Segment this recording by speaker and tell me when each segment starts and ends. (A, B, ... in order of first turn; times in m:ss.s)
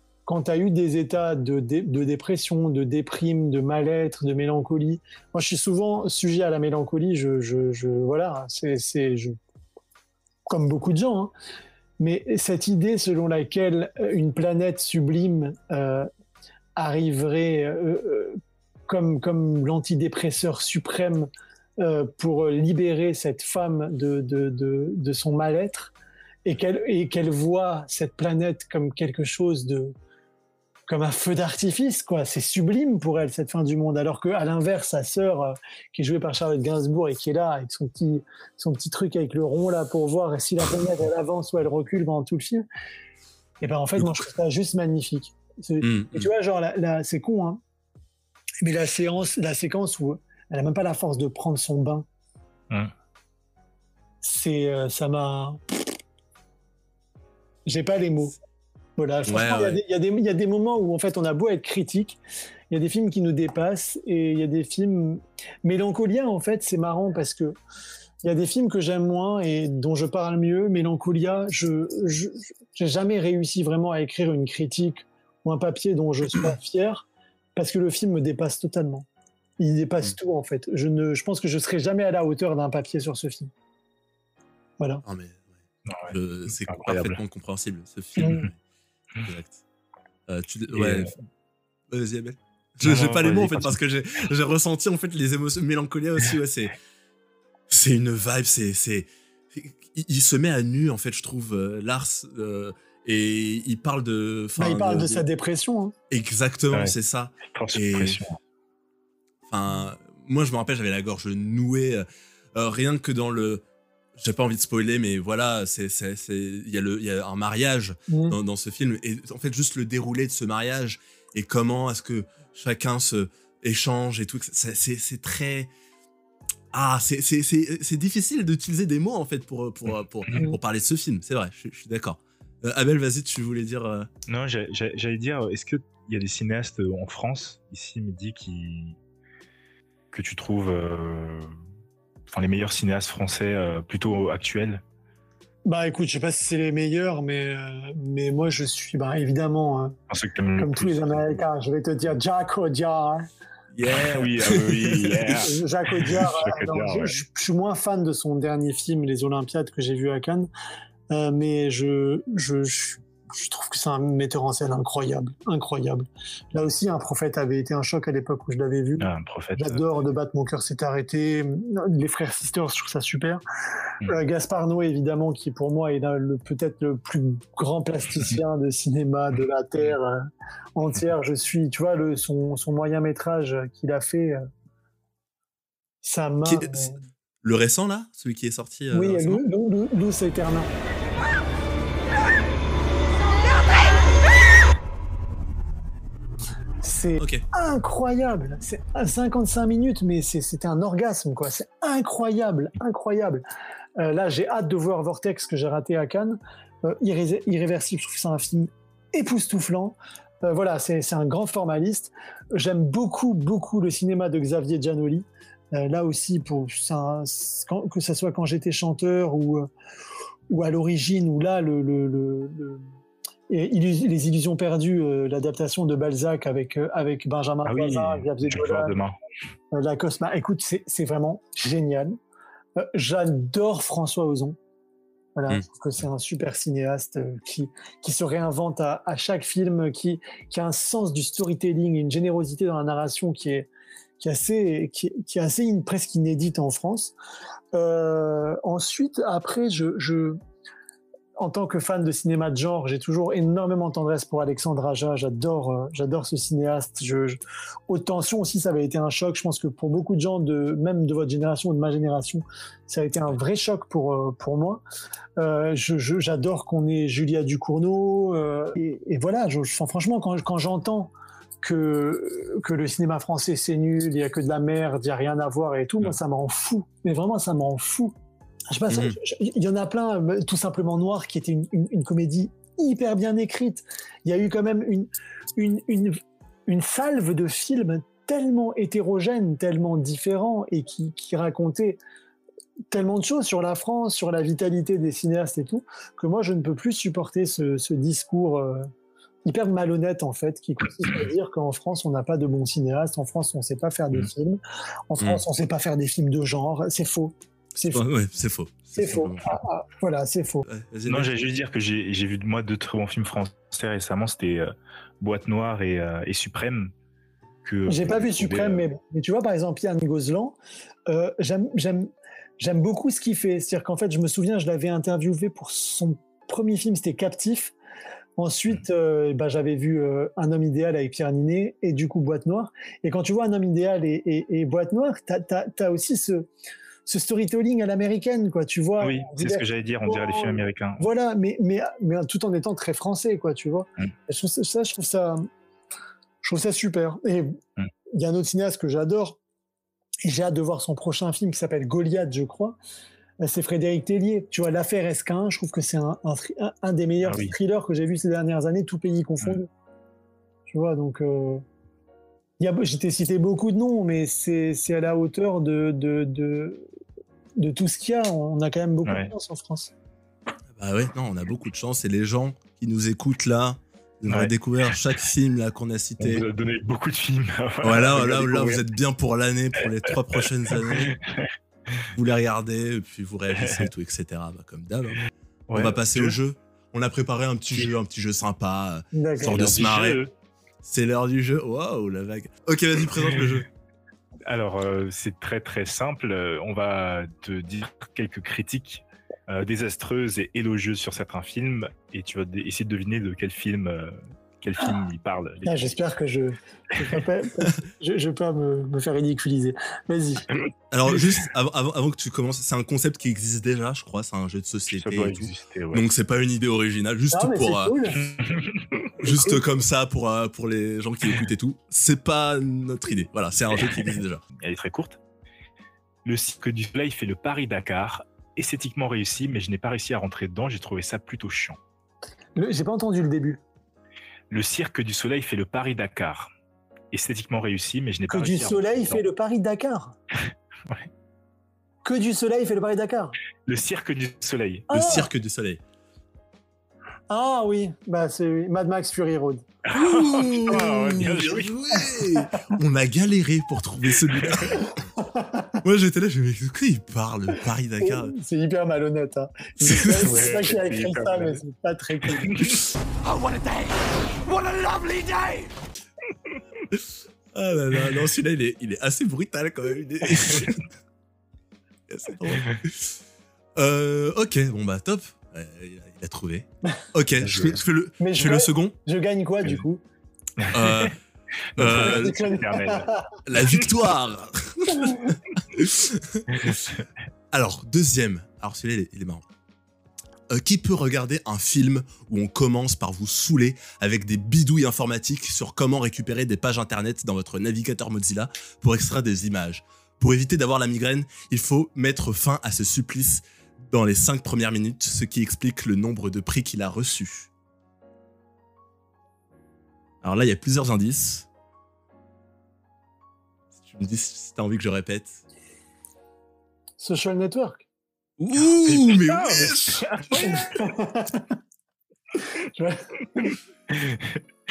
0:00.2-0:09.4 A
0:10.5-0:11.3 A
0:12.0-0:16.1 A
0:16.8-0:25.9 A
0:26.4-0:29.9 A
0:30.9-0:42.6 A
0:43.6-0:47.6 A
0:44.0-0:44.2 B
0:45.8-0:46.3 B
0:48.6-0:52.0 A
0:54.2-0:55.6 A
0:57.6-0:58.4 A
0:59.0-1:02.2 A
0:59.2-0:59.8 B
1:02.7-1:07.6 A
1:08.2-1:19.0 A
1:19.6-1:23.5 A
1:25.0-1:25.5 B
1:25.9-1:27.2 C
1:26.1-1:28.6 B
1:28.2-1:28.4 A
1:29.2-1:29.6 B
1:30.3-1:31.1 B
1:30.7-1:31.1 C
1:31.9-1:36.7 B
1:32.8-1:33.8 C
1:37.7-1:45.2 B
1:44.6-1:45.9 A
1:46.1-1:48.2 B
1:47.5-1:48.4 C
1:49.5-1:53.6 B
1:54.2-2:05.7 B
1:58.1-1:58.4 A
2:06.7-2:14.1 B
2:14.3-2:19.0 C
2:20.1-2:21.5 C
2:22.3-2:24.8 C
2:25.6-2:30.0 A
2:30.1-2:31.4 C
2:30.6-2:33.2 A
2:33.7-2:35.4 B
2:34.1-2:37.1 C
2:35.4-2:40.5 A
2:41.1-2:53.4 A
2:49.0-2:49.9 C
2:54.0-3:04.4 A
3:06.0-3:07.0 A
3:06.4-3:09.4 B
3:08.9-3:10.7 A
3:16.8-3:23.4 A
3:17.2-3:17.4 B
3:24.0-3:39.7 A
3:40.5-3:42.8 A
3:43.5-3:49.0 A
3:47.6-3:49.2 C
3:49.7-3:52.2 A
3:52.8-3:54.6 A
3:55.4-4:03.7 A
4:04.2-4:07.1 A
4:07.7-4:10.4 A
4:11.4-4:17.4 A
4:17.9-4:24.8 A
4:25.4-4:38.1 A
4:38.7-4:52.0 A
4:38.9-4:39.2 B
4:52.9-4:58.9 A
4:59.4-5:08.0 A
5:07.8-5:09.5 B
5:08.9-5:10.7 A
5:10.7-5:11.3 B
5:11.1-5:16.9 C
5:17.6-5:18.8 C
5:17.9-5:20.6 A
5:21.1-5:27.7 A
5:28.4-5:36.5 A
5:37.0-5:45.5 A
5:39.0-5:41.1 C
5:46.4-5:47.6 A
5:48.1-5:49.4 A
5:50.2-5:52.8 A
5:53.4-5:59.7 A
5:57.2-5:57.5 C
6:00.7-6:01.6 A
6:02.6-6:06.8 A
6:07.6-6:09.9 A
6:09.0-6:09.3 C
6:10.7-6:16.4 B
6:16.2-6:18.8 C
6:17.8-6:21.2 B
6:20.9-6:22.1 C
6:22.1-6:25.2 B
6:25.7-6:26.4 C
6:25.7-6:30.2 B
6:29.1-6:29.7 A
6:29.5-6:30.3 C
6:30.8-6:33.6 B
6:34.5-6:46.0 C
6:45.6-6:50.4 A
6:50.9-6:58.1 B
6:54.9-6:56.0 C
6:57.3-6:58.2 A
6:58.2-6:59.1 C
6:59.2-7:04.4 B
6:59.3-6:59.6 A
7:03.9-7:05.2 C
7:06.2-7:11.8 C
7:12.6-7:13.6 A
7:14.5-7:16.5 C
7:17.1-7:19.2 C
7:18.3-7:20.1 A
7:22.0-7:23.4 A
7:23.6-7:24.9 C
7:24.9-7:25.3 A
7:24.9-7:25.8 B
7:27.3-7:29.6 A
7:29.8-7:31.9 C
7:29.9-7:34.9 B
7:34.4-7:34.8 C
7:35.2-7:35.8 A
7:35.8-7:38.3 B
7:38.0-7:42.6 A
7:39.8-7:40.4 B
7:40.1-7:41.6 C
7:42.4-7:42.8 C
7:43.2-7:45.7 D
7:46.9-7:50.8 B
7:52.1-7:53.1 B
7:53.8-7:58.9 B
7:57.4-7:57.8 C
7:58.2-8:00.0 A
8:00.6-8:01.1 C
8:00.7-8:01.2 B
8:01.8-8:02.5 B
8:01.8-8:03.9 C
8:01.9-8:03.3 A
8:03.4-8:06.7 B
8:05.0-8:05.3 A
8:06.5-8:07.0 C
8:07.5-8:09.4 B
8:10.5-8:27.5 B
8:30.2-8:31.5 B
8:33.8-8:35.4 B
8:37.0-8:37.8 A
8:38.4-8:40.2 B
8:38.8-8:40.8 C
8:40.4-8:41.5 A
8:42.7-8:43.6 A
8:43.9-8:44.4 C